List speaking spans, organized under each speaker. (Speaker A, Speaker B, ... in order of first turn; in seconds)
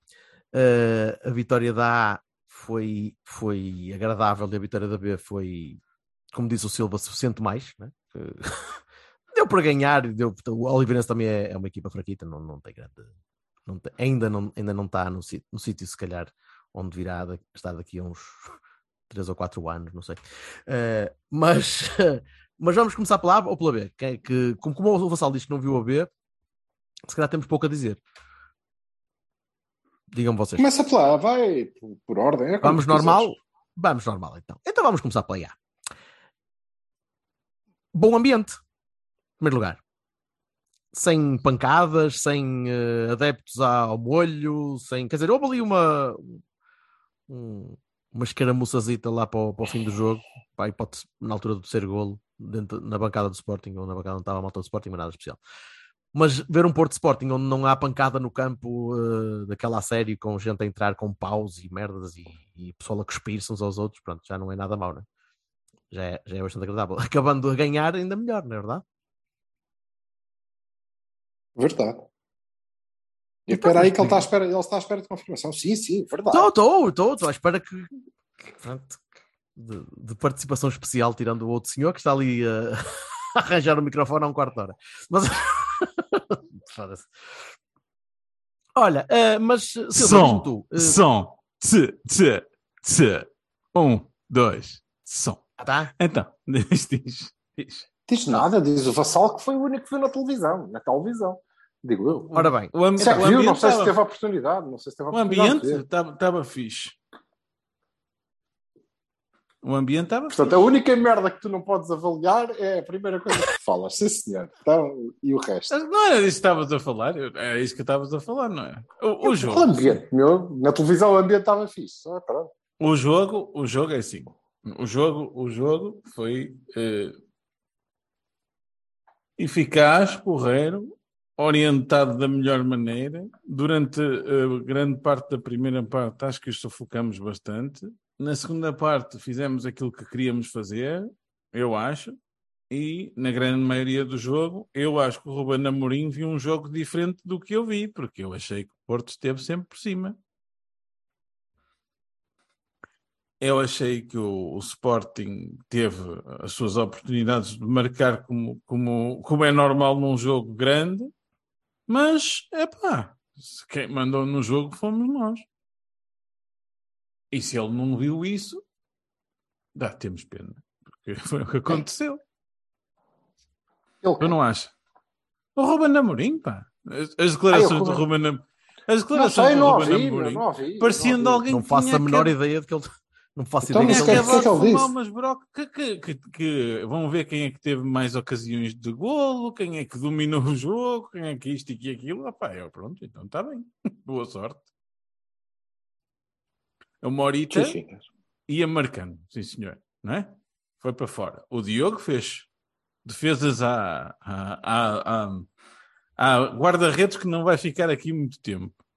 Speaker A: 0.5-5.8, 6.3-8.8, 9.3-13.1, 13.7-18.6, 19.1-26.1, 27.1-28.0, 30.1-30.7, 32.6-35.5, 37.9-38.6, 39.4-39.8, 40.9-46.4, 47.3-55.4, 56.1-65.0, 65.9-68.8, 73.5-74.2, 76.3-77.9, 78.6-79.0, 79.6-87.1, 88.8-91.0, 95.6-95.9, 102.3-103.1, 181.5-184.4
Speaker B: 30.6-33.4, 71.5-72.0, 73.5-76.5, 98.1-105.8, 110.3-115.7, 119.2-122.5, 174.0-174.4, 177.5-178.0, 179.1-181.4, 183.6-184.9, 197.5-198.0
Speaker C: 89.9-95.5, 96.0-97.8, 102.7-103.9, 105.1-107.0, 109.6-110.6, 115.7-120.0, 122.8-127.1, 129.4-142.2, 142.7-150.2, 153.4-161.1, 161.9-165.4, 167.3-168.6, 169.7-172.2, 174.2-174.7, 175.6-182.3, 183.9-194.7, 197.0-197.8, 198.5-202.5, 203.0-205.5, 206.2-208.7